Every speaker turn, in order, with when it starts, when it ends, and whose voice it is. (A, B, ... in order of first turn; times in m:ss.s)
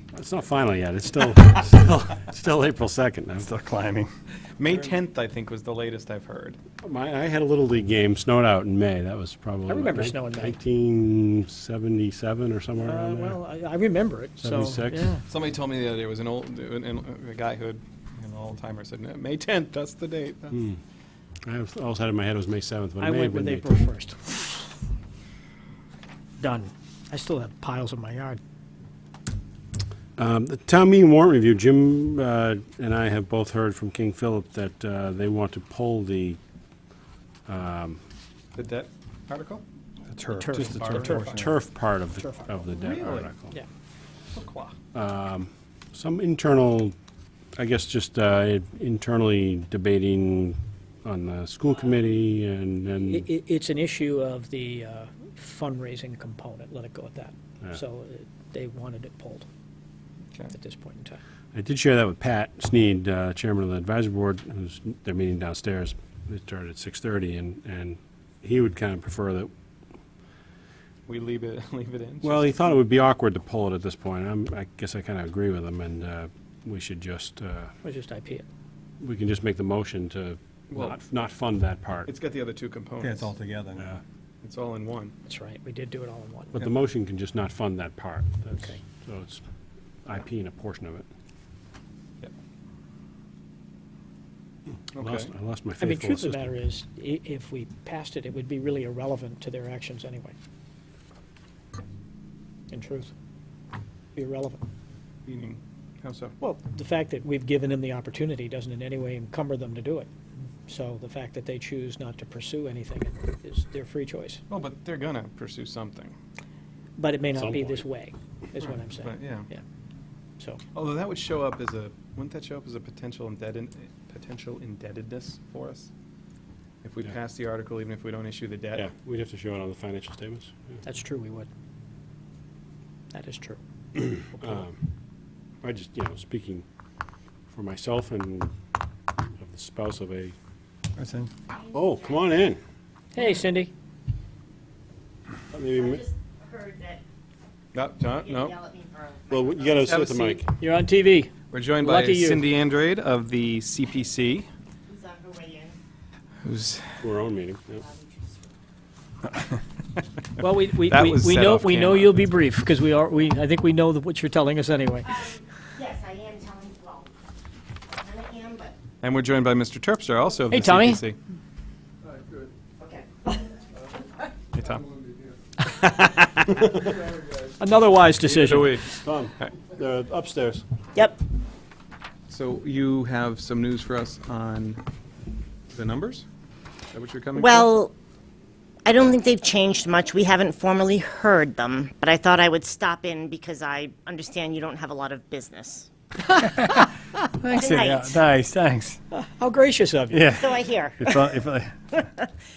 0:00.2-0:03.5 A
0:03.4-0:04.1 B
0:04.6-0:06.6 C
0:06.8-0:13.4 A
0:09.7-0:10.6 D
0:12.8-0:15.2 D
0:14.4-0:15.1 A
0:15.3-0:20.6 C
0:20.5-0:20.8 A
0:21.5-0:23.7 A
0:23.0-0:24.7 D
0:26.4-0:28.4 D
0:30.2-0:36.4 A
0:37.5-0:38.0 A
0:38.6-0:39.6 C
0:40.1-0:41.5 B
0:40.3-0:41.3 D
0:40.8-0:41.4 C
0:41.2-0:43.6 A
0:42.7-0:43.3 C
0:44.3-0:44.8 C
0:44.9-0:47.0 A
0:47.6-0:53.3 A
0:53.1-0:59.5 D
1:00.5-1:01.2 D
1:01.5-1:09.5 A
1:11.1-1:12.5 C
1:12.2-1:17.7 A
1:17.8-1:18.4 D
1:19.0-1:22.1 A
1:20.7-1:21.0 C
1:22.1-1:23.3 C
1:23.0-1:23.9 B
1:24.4-1:25.1 C
1:25.3-1:26.5 D
1:26.5-1:29.4 A
1:30.0-1:31.1 A
1:34.9-1:36.4 A
1:35.0-1:35.3 C
1:35.8-1:40.4 D
1:42.7-1:43.1 D
1:44.2-1:44.6 D
1:45.3-1:46.3 C
1:46.4-1:50.1 D
1:50.7-1:54.4 D
1:54.5-1:56.2 C
1:57.0-1:59.6 D
1:57.3-1:57.9 A
1:59.0-1:59.5 C
2:00.7-2:05.9 C
2:06.8-2:08.9 C
2:08.7-2:10.8 A
2:10.8-2:11.5 D
2:13.1-2:14.6 D
2:14.4-2:14.8 A
2:15.6-2:16.6 A
2:17.5-2:18.5 A
2:19.4-2:20.4 A
2:21.0-2:21.3 B
2:21.5-2:22.2 E
2:21.7-2:22.6 A
2:23.1-2:23.7 D
2:25.5-2:26.0 A
2:25.6-2:27.0 E
2:27.7-2:28.5 C
2:28.0-2:29.9 E
2:29.3-2:30.5 A
2:29.8-2:30.4 C
2:30.6-2:32.4 D
2:31.5-2:34.5 C
2:34.9-2:35.8 E
2:36.4-2:36.9 C
2:37.0-2:37.8 A
2:37.7-2:38.5 E
2:40.4-2:45.1 D
2:40.8-2:42.3 C
2:45.0-2:47.1 E
2:47.9-2:48.8 E
2:49.0-2:51.2 C
2:50.5-2:51.0 D
2:52.8-2:53.5 E
2:54.5-2:54.8 C
2:55.6-2:56.4 D
2:57.6-2:58.9 D
2:58.2-2:59.5 C
2:58.9-3:00.6 A
3:01.0-3:01.2 E
3:02.3-3:04.8 C
3:05.7-3:06.2 C
3:06.9-3:07.7 C
3:07.4-3:07.9 E
3:08.8-3:15.9 E
3:16.4-3:16.8 B
3:17.3-3:19.0 B
3:17.5-3:18.2 E
3:19.1-3:20.4 D
3:20.1-3:21.8 B
3:20.4-3:21.4 E
3:21.9-3:22.3 E